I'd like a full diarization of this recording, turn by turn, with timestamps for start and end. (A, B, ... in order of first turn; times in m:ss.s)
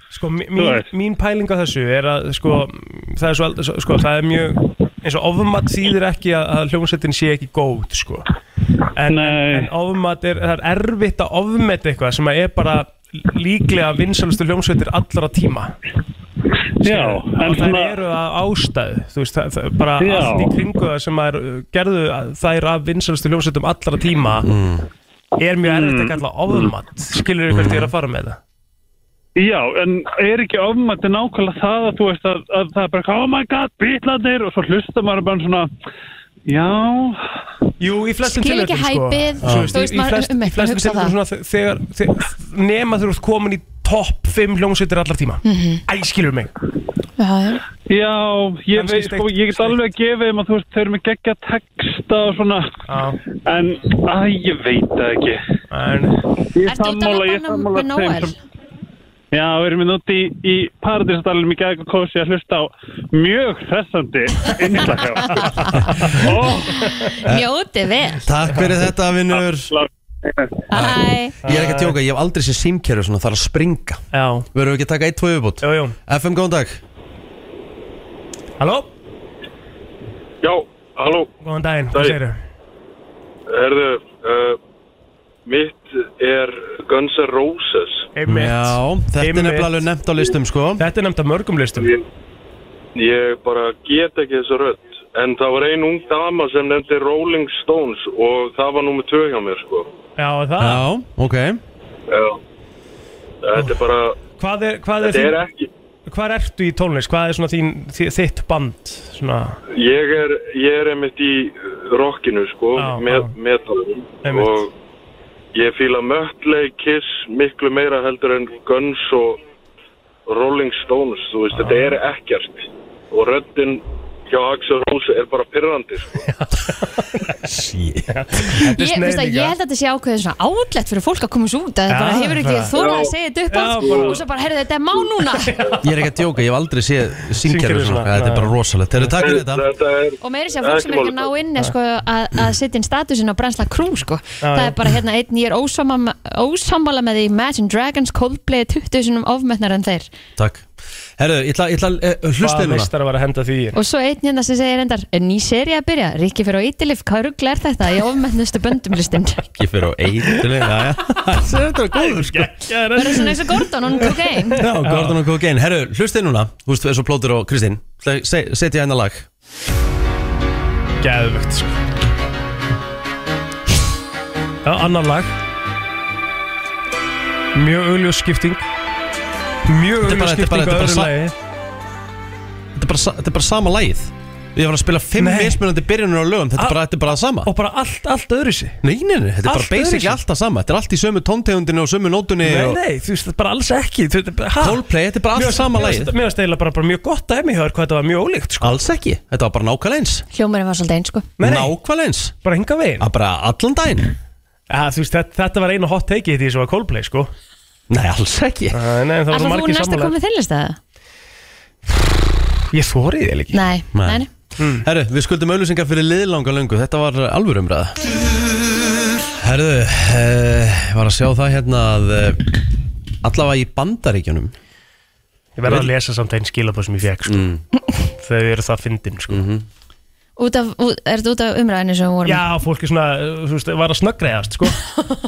0:00.1-0:08.3 A
0:00.6-0:00.9 B
0:09.0-0:15.7 A
0:09.1-0:09.7 B
0:16.8-0:18.0 B
0:16.8-0:24.5 A
0:20.0-0:20.6 B
0:24.4-0:24.9 C
0:25.4-0:28.4 A
0:25.6-0:26.7 B
0:27.5-0:27.9 C
0:29.4-0:35.7 B
0:36.5-0:37.2 B
0:37.8-0:46.5 A
0:38.2-0:41.2 D
0:39.4-0:39.8 C
0:45.4-0:45.8 D
0:47.2-0:47.6 D
0:47.9-0:52.8 B
0:48.7-0:49.8 A
0:52.9-0:53.2 A
0:53.5-0:55.4 B
0:55.7-0:56.1 A
0:56.5-0:58.3 B
0:56.6-0:58.4 D
0:59.3-1:06.9 B
1:06.7-1:08.2 D
1:08.2-1:09.7 C
1:09.3-1:09.9 B
1:10.7-1:11.4 D
1:10.7-1:14.0 C
1:11.4-1:12.0 A
1:14.1-1:14.5 A
1:14.5-1:16.8 C
1:15.6-1:16.0 A
1:18.6-1:18.9 A
1:20.4-1:21.3 E
1:21.4-1:22.4 A
1:21.9-1:22.2 E
1:23.5-1:24.6 E
1:25.5-1:28.1 E
1:28.2-1:29.8 A
1:28.3-1:30.8 C
1:30.8-1:31.9 A
1:31.8-1:32.0 E
1:33.0-1:39.9 E
1:40.2-1:40.9 A
1:40.6-1:41.6 C
1:42.1-1:42.4 E
1:43.4-1:44.2 E
1:44.4-1:45.4 A
1:45.0-1:45.7 E
1:46.1-1:49.6 A
1:49.7-1:54.7 E
1:52.8-1:53.3 A
1:54.2-1:54.6 A
1:55.5-1:59.4 E
2:00.3-2:06.2 E
2:01.6-2:02.0 A
2:06.3-2:07.4 A
2:07.4-2:08.1 C
2:08.1-2:09.5 A
2:08.8-2:15.5 D
2:11.9-2:12.8 A
2:12.7-2:13.1 E
2:13.5-2:14.2 A
2:13.8-2:14.2 E
2:15.4-2:15.9 A
2:15.8-2:19.6 C
2:17.4-2:19.1 A
2:19.2-2:21.3 E
2:20.2-2:30.1 D
2:24.4-2:24.8 A
2:30.4-2:32.9 C
2:32.4-2:33.8 A
2:33.8-2:39.5 D
2:39.6-2:42.5 C
2:41.9-2:45.2 A
2:43.0-2:44.6 D
2:44.6-2:49.3 C
2:51.0-2:51.8 A
2:54.6-2:55.3 A
2:57.6-2:58.6 A
2:59.7-3:01.3 A
3:00.0-3:01.1 C
3:02.8-3:07.5 C
3:05.2-3:05.6 A
3:06.6-3:08.8 A
3:08.8-3:12.8 C
3:09.4-3:10.2 A
3:12.4-3:14.8 A
3:14.6-3:16.1 C
3:15.3-3:18.8 A
3:18.6-3:20.2 C
3:20.3-3:21.3 D
3:21.4-3:21.7 A
3:21.4-3:22.4 C
3:22.4-3:23.1 A
3:23.0-3:24.1 C
3:24.7-3:27.3 A
3:27.9-3:28.8 C
3:28.7-3:30.2 A
3:29.3-3:30.8 D
3:32.7-3:33.6 A
3:33.5-3:34.3 D
3:33.9-3:34.2 C
3:34.6-3:34.8 A
3:34.8-3:38.0 C
3:39.4-3:42.6 C
3:43.2-3:44.5 C
3:45.6-3:47.5 A
3:47.2-3:47.6 C
3:48.1-3:49.4 A
3:49.3-3:49.7 C
3:50.4-3:52.4 D
3:52.2-3:54.8 A